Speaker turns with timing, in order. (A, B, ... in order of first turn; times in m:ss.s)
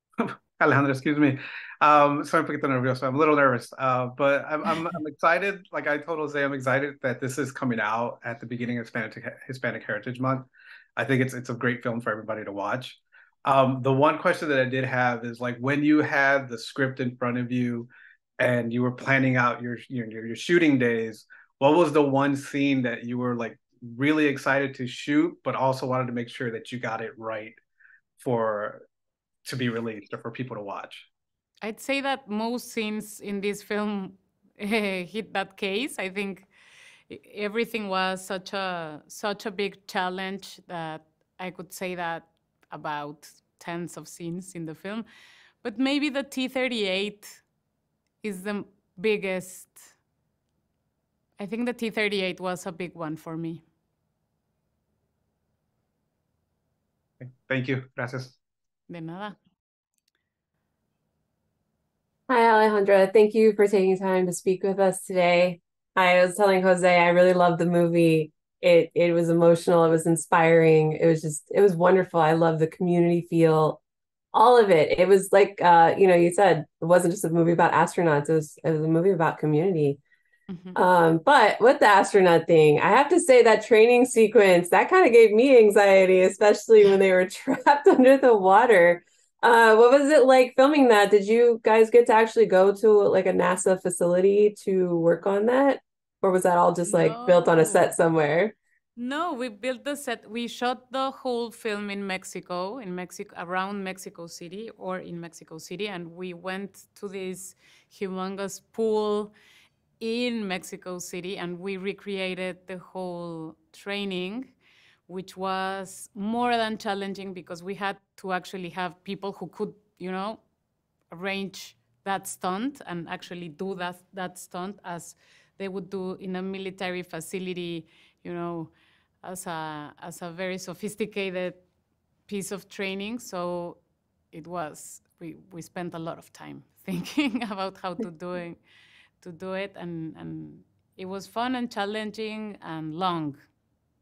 0:00.2-0:27.6 A
0:28.2-0:28.9 A
0:29.4-0:31.1 A
0:31.6-0:36.5 B
0:37.1-0:45.1 B
0:45.6-0:47.4 B
0:48.2-0:50.0 B
0:51.4-0:53.6 B
0:57.2-0:58.4 A
0:58.9-0:59.4 B
1:02.3-1:13.8 C
1:14.3-1:20.0 C
1:20.5-1:20.8 B
1:20.8-1:38.6 C
1:36.9-1:37.9 B
1:39.0-1:49.3 B
1:50.0-1:54.5 B
1:55.1-2:00.4 B
2:01.1-2:11.6 B
2:12.3-2:13.8 B
2:14.3-2:18.6 B
2:19.2-2:23.4 B